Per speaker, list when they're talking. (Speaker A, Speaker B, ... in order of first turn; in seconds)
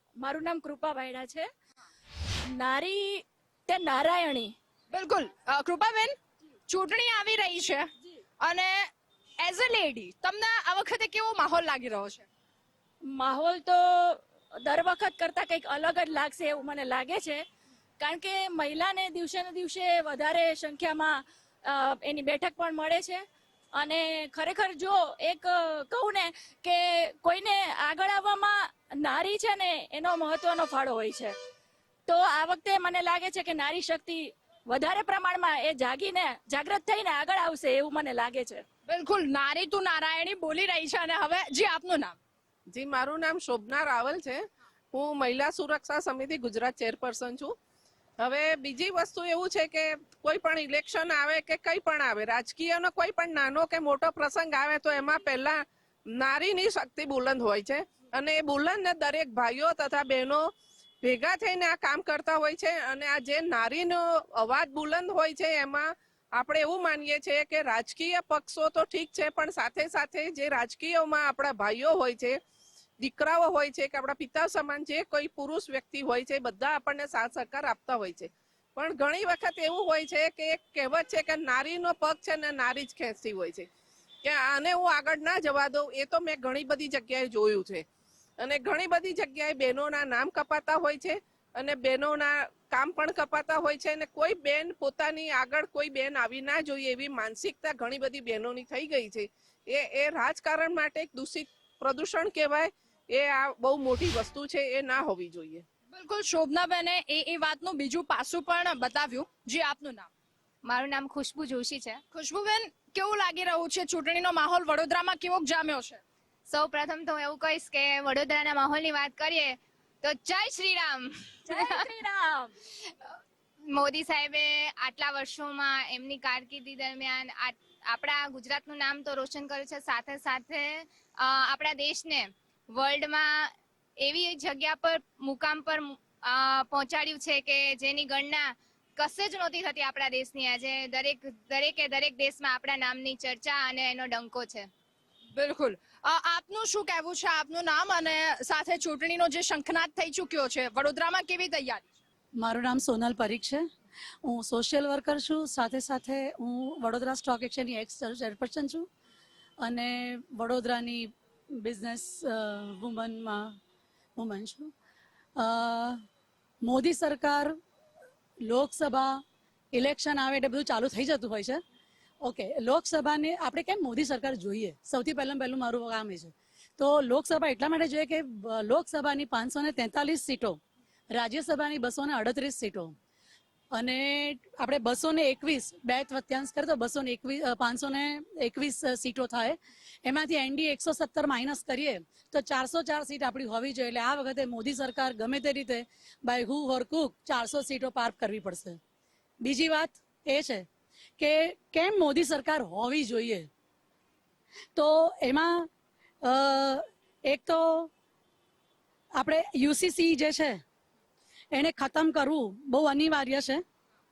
Speaker A: 0.2-1.5, 2.5-4.5, 13.1-17.4, 18.0-31.3, 32.1-38.6, 121.5-122.5
Speaker B: 4.9-6.2, 6.7-7.9, 8.4-8.9, 9.4-12.3, 38.9-42.2, 105.9-110.1, 112.1-116.0, 145.3-152.0
Speaker C: 42.7-44.4, 44.9-47.5, 48.2-60.5, 61.0-72.4, 73.0-83.7, 84.2-87.8, 88.4-105.6
Speaker D: 110.6-112.0, 116.5-121.9, 122.8-123.2, 123.7-144.7
Speaker E: 152.4-153.7, 154.2-158.9, 159.6-163.6, 164.2-164.7, 165.4-166.0, 166.6-167.6, 168.4-169.2, 169.7-171.6, 172.2-180.6, 181.1-182.9, 183.7-198.8, 199.4-200.7, 201.2-203.5, 204.8-205.7, 206.2-207.9, 209.2-210.6, 211.5-213.6